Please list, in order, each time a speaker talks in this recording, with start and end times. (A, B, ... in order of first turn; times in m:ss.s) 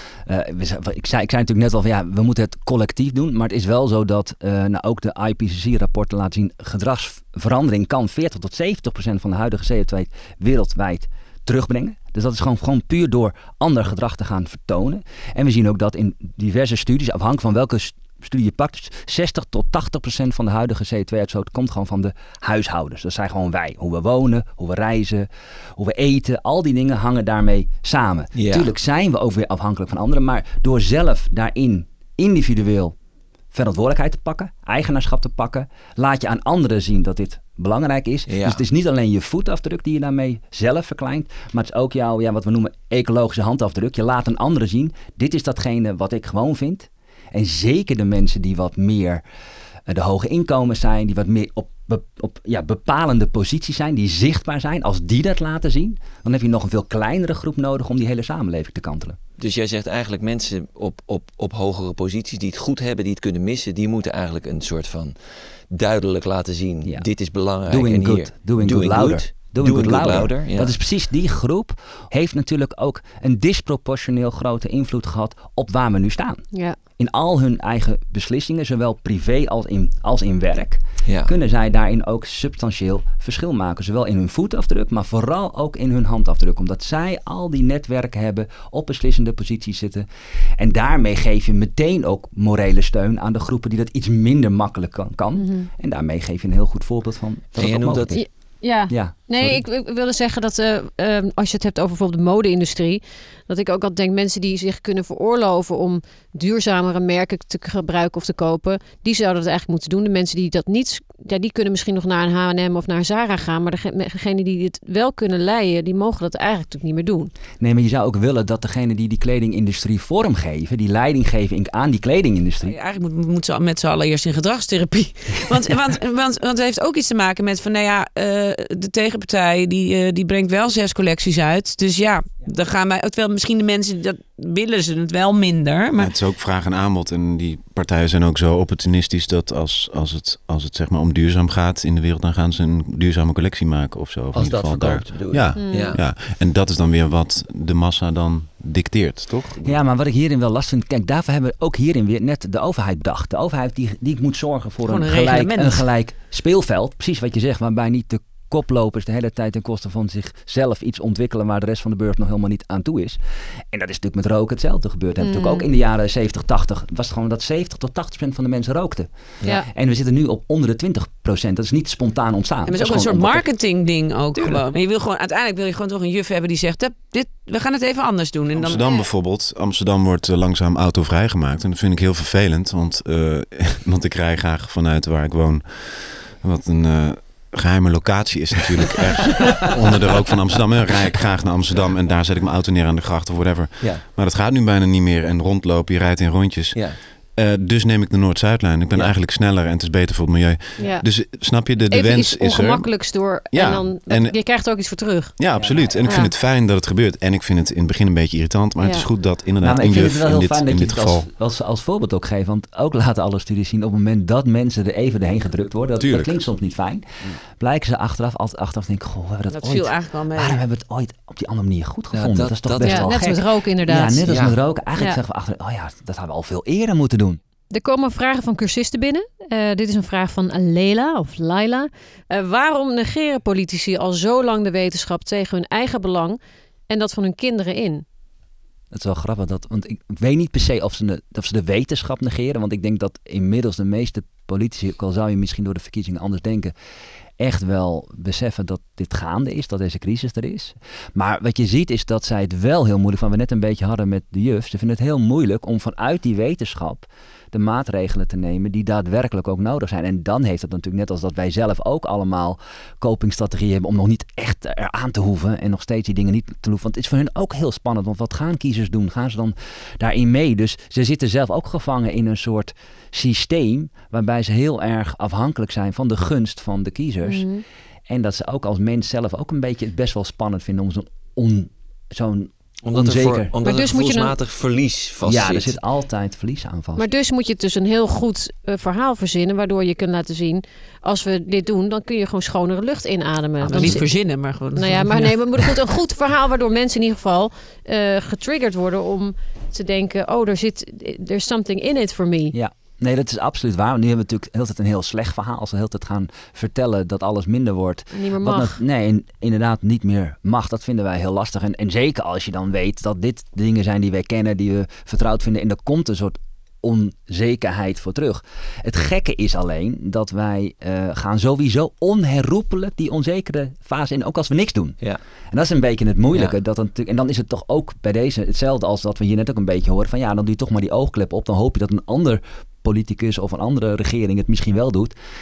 0:00.2-0:32.9 A
0:28.3-0:28.7 B
0:33.5-0:49.2 A
0:38.3-0:38.6 B
0:49.9-0:59.2 A
0:59.4-1:05.2 B
1:05.7-1:10.8 B
1:07.7-1:16.4 A
1:16.5-1:16.8 C
1:17.0-1:30.1 A
1:21.0-1:21.3 B
1:30.6-1:38.2 A
1:35.4-1:35.7 C
1:37.6-1:38.2 B
1:38.1-1:57.3 C
1:38.9-1:39.1 A
1:57.6-2:02.8 A
2:02.6-2:16.1 D
2:16.0-2:29.6 E
2:24.3-2:26.0 B
2:25.6-2:26.0 C
2:29.6-2:43.2 A
2:34.8-2:35.8 D
2:43.7-2:53.5 A
2:45.2-2:45.6 C
2:52.6-2:58.9 D
2:58.5-3:24.4 E
3:20.8-3:21.1 C
3:21.9-3:25.3 C
3:25.4-3:31.3 E
3:25.6-3:26.2 A
3:26.0-3:26.3 C
3:28.8-3:29.0 C
3:29.6-3:47.4 A
3:36.0-3:36.4 E
3:39.5-3:40.6 D
3:42.1-3:43.2 B
3:42.8-3:44.3 C
3:44.3-3:44.6 B
3:47.7-3:58.0 C
3:58.9-4:06.7 A
4:07.4-4:37.5 A
4:37.2-4:37.6 C
4:38.1-4:43.5 A
4:42.8-4:45.8 B
4:43.6-4:44.3 C
4:45.2-4:47.0 A
4:47.0-5:02.5 C
4:53.6-4:55.4 D
4:53.7-4:54.0 A
5:02.5-5:25.0 A
5:08.1-5:08.8 C
5:25.5-5:35.1 A